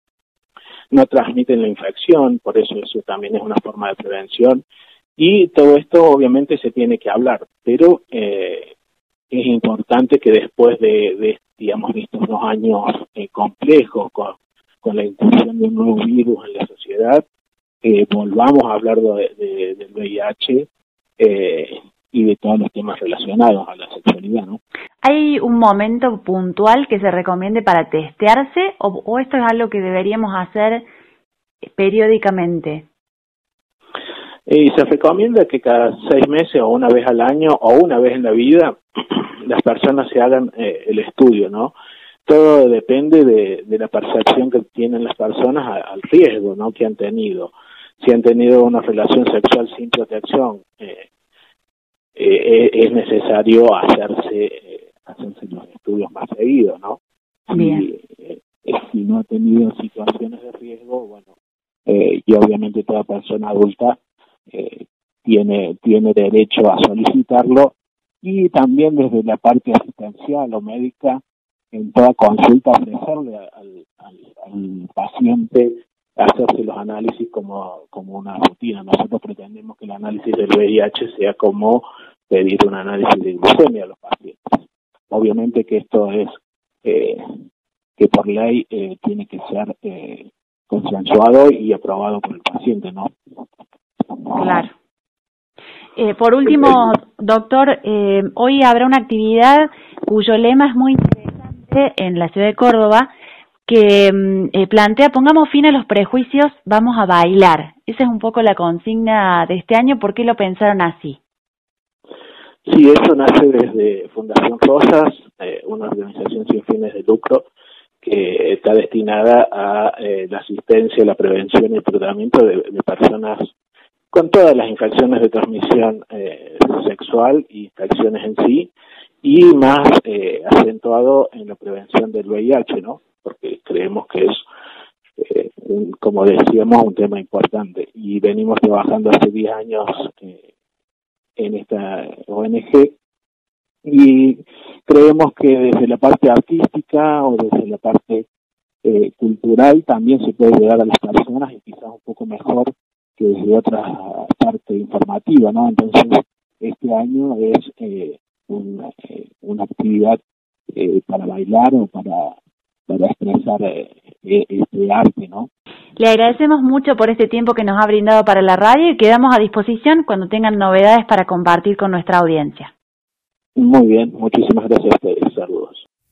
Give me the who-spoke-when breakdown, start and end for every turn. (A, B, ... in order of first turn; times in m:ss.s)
0:00.9-0:04.6 A
0:05.2-0:08.7 A
0:09.3-0:17.2 A
0:17.8-0:20.7 A
0:21.2-0:24.6 A
0:25.0-0:30.8 B
0:31.8-0:32.9 B
0:34.5-0:41.8 A
0:42.2-0:51.1 A
0:52.2-1:01.3 A
0:57.5-0:57.9 B
1:01.9-1:04.0 A
1:04.5-1:24.4 A
1:25.1-1:27.2 A
1:28.0-1:33.1 A
1:34.3-1:34.7 B
1:36.0-1:43.1 B
1:43.7-1:51.2 B
1:52.6-1:57.5 A
1:58.0-2:03.5 A
2:04.1-2:08.7 A
2:09.2-2:14.4 A
2:15.2-2:20.4 A
2:21.4-2:22.9 A
2:23.8-2:28.2 A
2:28.8-2:40.2 A
2:40.7-2:42.4 A
2:42.9-2:45.5 A
2:46.0-2:52.7 B
2:53.6-2:55.8 A